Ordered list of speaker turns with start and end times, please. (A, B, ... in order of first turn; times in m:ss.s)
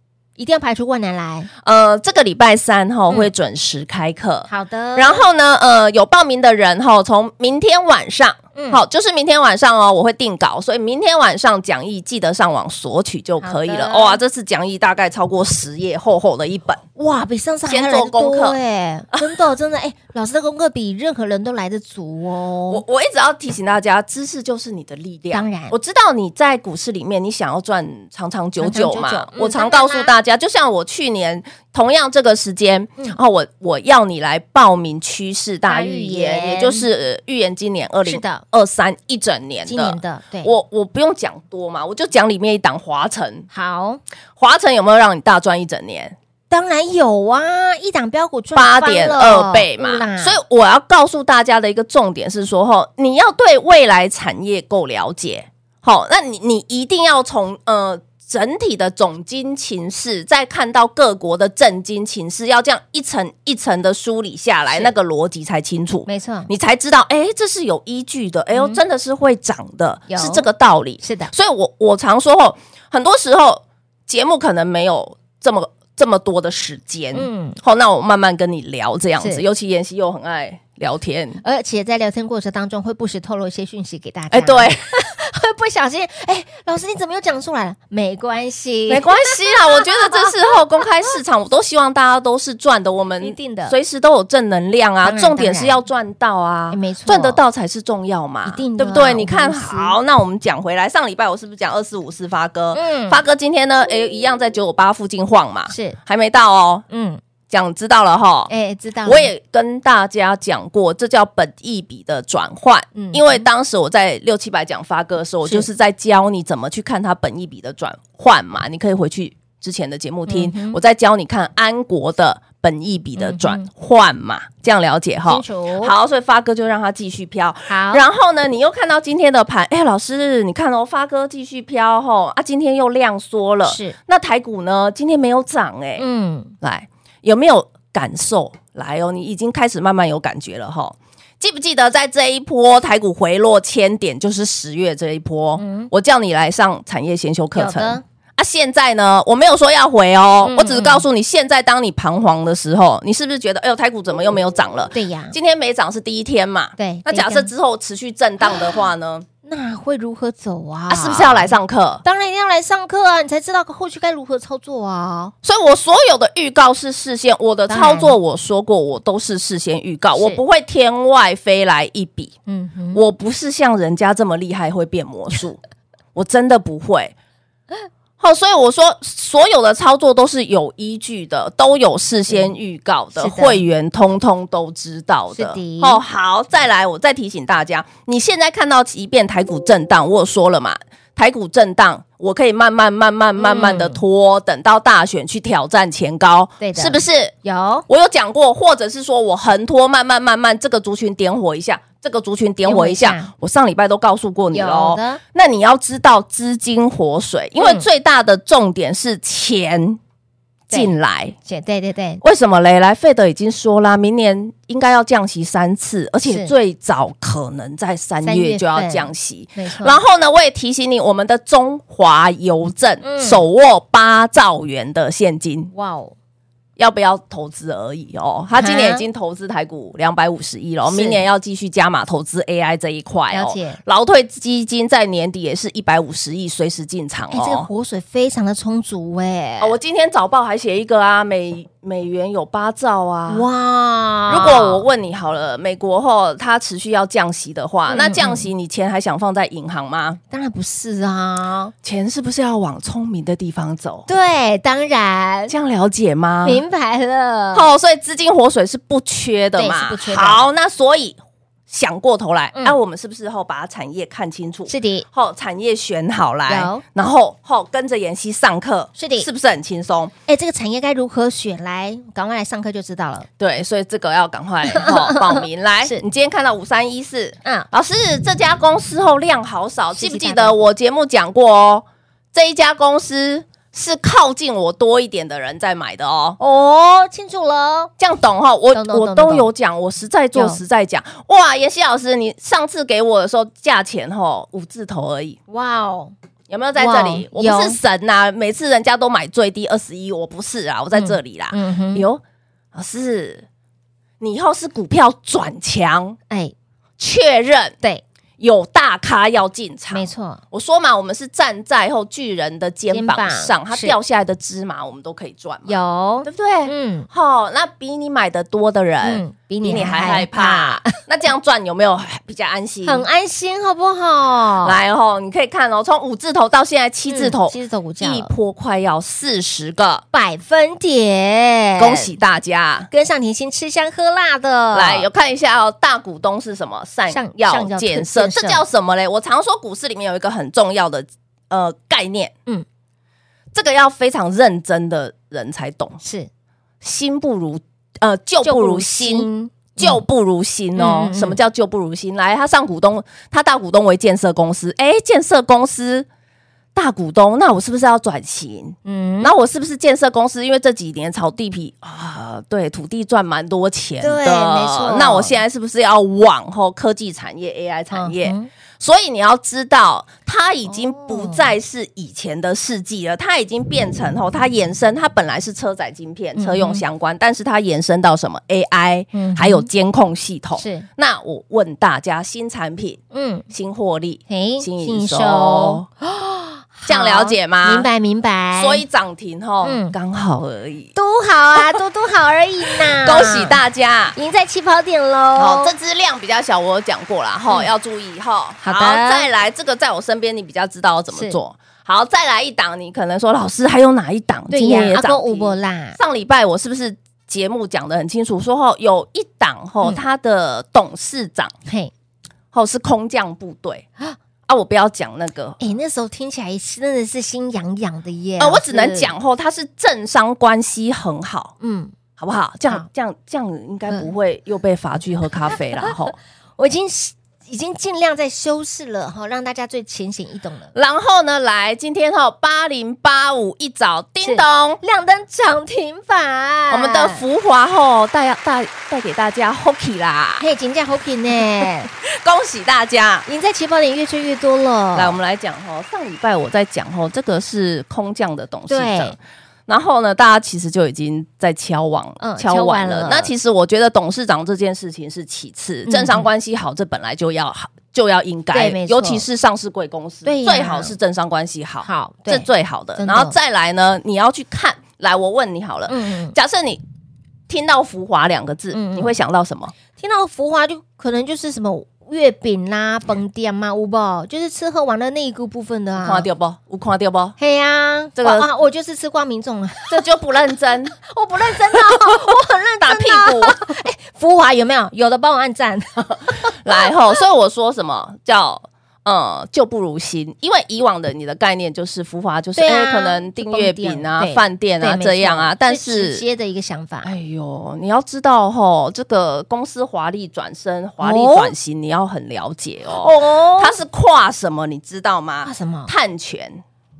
0:00.4-0:01.5 A
0:01.6-0:16.8 B
0:04.5-0:05.2 A
0:08.6-0:08.8 A
0:13.4-0:14.2 A
0:17.0-0:22.8 A
0:17.7-0:18.6 B
0:22.7-0:43.5 B
0:25.3-0:25.8 A
0:28.6-0:30.1 A
0:35.7-0:36.8 A
0:38.0-0:38.4 A
0:39.6-0:40.5 A
0:43.5-0:44.0 A
0:44.4-0:46.1 B
0:46.5-0:50.4 A
0:48.5-1:21.4 B
1:06.1-1:06.5 A
1:08.5-1:08.8 A
1:10.1-1:10.4 A
1:11.0-1:11.3 A
1:17.1-1:17.6 A
1:21.4-1:29.2 A
1:24.3-1:24.8 B
1:28.9-1:46.8 B
1:29.7-1:30.3 A
1:33.2-1:33.7 A
1:35.0-1:35.8 A
1:36.7-1:37.4 A
1:38.4-1:40.0 A
1:42.7-1:43.2 A
1:45.7-1:46.0 A
1:46.9-1:47.2 A
1:47.5-1:48.5 B
1:48.5-1:49.3 A
1:49.0-2:16.0 B
1:52.9-1:53.4 A
2:00.3-2:00.8 A
2:03.2-2:03.6 A
2:05.3-2:05.9 A
2:07.7-2:08.0 A
2:13.6-2:14.0 A
2:16.0-2:16.5 A
2:16.6-2:39.2 B
2:25.6-2:25.9 A
2:27.5-2:28.0 A
2:30.4-2:31.0 A
2:34.9-2:35.3 A
2:36.8-2:37.5 A
2:39.4-2:41.5 A
2:40.9-2:42.0 B
2:42.0-2:45.3 A
2:45.4-2:52.4 B
2:47.7-2:48.1 A
2:52.5-2:53.0 A
2:52.9-2:55.6 B
2:56.1-2:57.1 B
2:58.2-3:17.3 B
3:03.2-3:03.6 A
3:05.3-3:06.0 A
3:13.4-3:14.0 A
3:16.6-3:17.8 A
3:17.9-3:30.0 B
3:22.6-3:23.3 A
3:24.5-3:25.2 A
3:27.6-3:27.8 A
3:30.7-3:31.4 B
3:31.4-3:32.2 A
3:32.2-3:45.7 B
3:36.2-3:36.5 A
3:38.2-3:40.0 A
3:43.0-3:43.4 A
3:45.7-3:46.1 A
3:46.8-3:57.7 B
3:48.6-3:49.0 A
3:50.8-3:51.2 A
3:53.3-3:53.8 A
3:57.3-3:59.7 A
3:59.6-4:03.5 B
4:03.3-4:04.8 A
4:04.3-4:10.2 B
4:07.9-4:08.5 A
4:10.3-4:11.7 A
4:11.8-4:14.1 B
4:14.1-4:15.5 A
4:15.5-4:16.6 B
4:16.4-4:17.7 A
4:17.5-4:30.1 B
4:19.6-4:20.4 A
4:24.7-4:25.0 A
4:26.5-4:26.8 A
4:29.0-4:29.3 A
4:30.3-4:33.3 A
4:33.4-4:46.4 B
4:34.7-4:36.0 A
4:39.9-4:40.6 A
4:46.4-4:47.9 A
4:48.0-4:55.4 B
4:48.7-4:49.5 A
4:50.3-4:50.6 A
4:55.5-4:56.1 A
4:56.5-5:02.2 B
4:56.8-4:57.8 A
5:00.9-5:02.0 A
5:02.7-5:03.4 B
5:04.2-5:06.2 B
5:07.0-5:07.7 B
5:08.4-5:23.0 B
5:09.9-5:10.4 A
5:12.9-5:14.0 A
5:15.7-5:17.1 A
5:19.0-5:20.9 A
5:22.8-5:24.8 A
5:24.6-5:30.0 B
5:27.1-5:28.3 A
5:30.1-5:32.1 A
5:31.8-5:32.9 B
5:32.9-5:35.0 A
5:34.7-5:42.3 B
5:37.1-5:38.6 A
5:43.5-5:46.0 B
5:46.0-5:46.3 A
5:46.8-5:56.0 B
5:48.4-5:50.0 A
5:50.8-5:51.4 A
5:56.7-6:25.9 B
5:58.8-5:59.3 A
6:04.0-6:05.4 A
6:07.9-6:08.5 A
6:10.7-6:11.5 A
6:16.4-6:16.8 A
6:19.1-6:19.7 A
6:20.6-6:20.9 A
6:23.1-6:23.4 A
6:24.3-6:28.8 A
6:26.9-6:27.9 B
6:28.5-6:30.9 B
6:29.6-6:29.9 A
6:30.9-6:33.6 A
6:32.8-6:34.2 B
6:34.2-6:35.7 A
6:35.4-6:51.5 B
6:38.6-6:39.3 A
6:41.1-6:41.4 A
6:44.5-6:46.0 A
6:51.7-6:51.9 A
6:52.5-6:53.9 B
6:54.5-6:55.6 B
6:55.6-6:59.1 A
6:58.4-7:01.5 B
7:01.6-7:01.9 A
7:02.2-7:06.1 B
7:06.6-7:10.7 A
7:10.7-7:14.8 B
7:14.2-7:17.2 A
7:16.7-7:20.4 B
7:20.4-7:21.9 A
7:21.9-7:23.2 B
7:23.3-7:25.2 A
7:24.9-7:46.8 B
7:28.7-7:29.2 A
7:32.2-7:33.3 A
7:35.9-7:36.3 A
7:38.5-7:39.2 A
7:40.2-7:40.9 A
7:41.8-7:43.3 A
7:45.9-7:46.4 A
7:47.5-7:49.7 B
7:48.7-7:49.1 A
7:50.0-7:56.2 A
7:56.0-7:57.4 B
7:57.4-8:00.0 A
7:58.2-7:58.5 B
7:59.9-8:01.0 B
8:01.0-8:06.5 A
8:02.8-8:03.6 B
8:06.6-8:16.2 B
8:12.6-8:17.1 A
8:17.0-8:26.6 B
8:21.0-8:21.5 A
8:22.9-8:23.7 A
8:25.4-8:25.9 A